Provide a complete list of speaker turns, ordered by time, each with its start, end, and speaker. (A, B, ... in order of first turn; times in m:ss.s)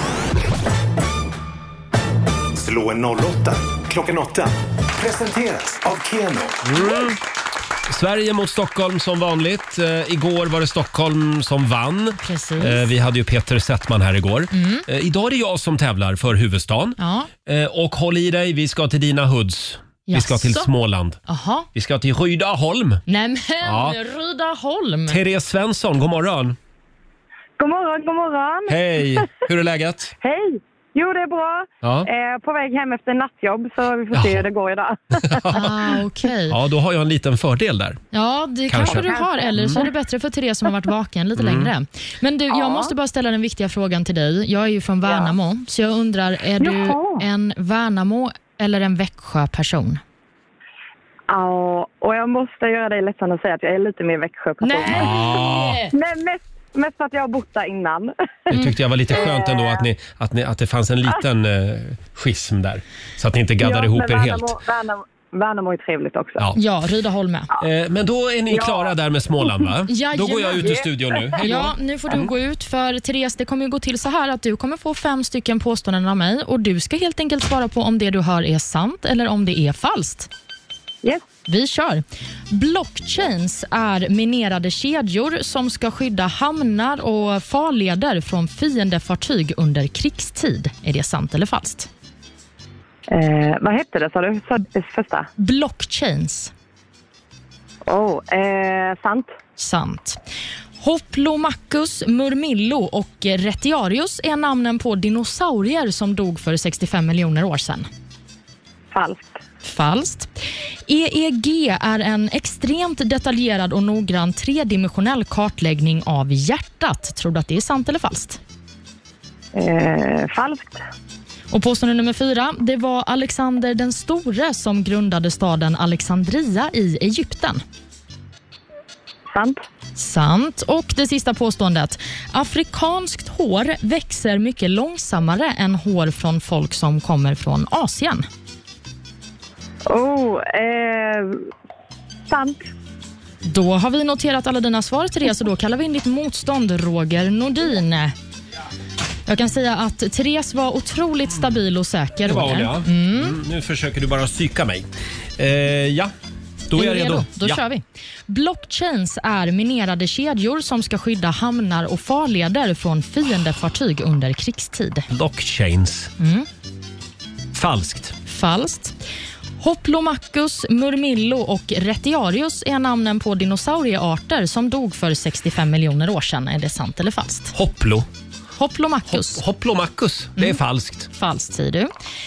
0:02.6-0:06.6 A
0:06.6-0:07.2 B
0:07.9-0:21.2 B
0:12.2-0:12.9 C
0:14.5-0:14.8 C
0:17.0-0:17.3 C
0:20.1-0:20.7 C
0:21.3-0:21.7 C
0:21.7-0:23.0 B
0:23.1-0:25.2 C
0:23.6-0:24.0 B
0:25.1-0:26.6 B
0:27.6-0:29.3 D
0:28.7-0:30.1 B
0:30.2-0:35.5 D
0:31.8-0:32.1 B
0:34.1-0:34.4 B
0:35.2-0:35.7 B
0:35.5-0:36.6 C
0:36.5-0:38.0 B
0:38.1-0:50.0 C
0:38.7-0:39.8 B
0:38.8-0:39.9 D
0:41.4-0:41.7 B
0:42.5-0:42.9 D
0:45.0-0:45.3 D
0:46.6-0:47.3 D
0:51.3-0:55.4 D
0:54.6-0:55.9 C
0:54.9-0:55.8 B
0:55.9-0:58.1 D
0:58.5-1:04.5 B
0:59.1-0:59.8 D
1:03.6-1:06.5 D
1:06.5-1:07.5 C
1:07.6-1:11.7 B
1:08.5-1:08.9 D
1:09.8-1:10.8 C
1:10.6-1:11.2 D
1:11.4-1:20.3 C
1:21.5-1:31.9 C
1:33.1-1:35.3 D
1:35.4-1:36.5 C
1:37.9-1:39.3 D
1:39.6-1:40.2 C
1:40.8-1:47.9 C
1:48.9-1:49.4 D
1:49.6-1:50.3 C
1:50.9-1:58.4 C
1:59.5-2:00.8 D
2:01.5-2:07.6 C
2:09.3-2:09.6 D
2:10.0-2:18.2 C
2:19.9-2:21.4 D
2:22.3-2:22.7 D
2:23.4-2:28.1 C
2:29.3-2:33.4 C
2:32.2-2:34.9 B
2:35.4-2:36.1 B
2:36.7-2:37.6 B
2:36.7-2:45.1 C
2:45.1-2:46.1 B
2:46.2-2:46.5 C
2:47.5-2:48.1 B
2:48.2-2:49.0 C
2:49.6-2:57.5 C
2:57.5-2:58.1 B
2:58.6-2:59.4 C
2:59.1-3:01.1 B
3:01.1-3:01.9 C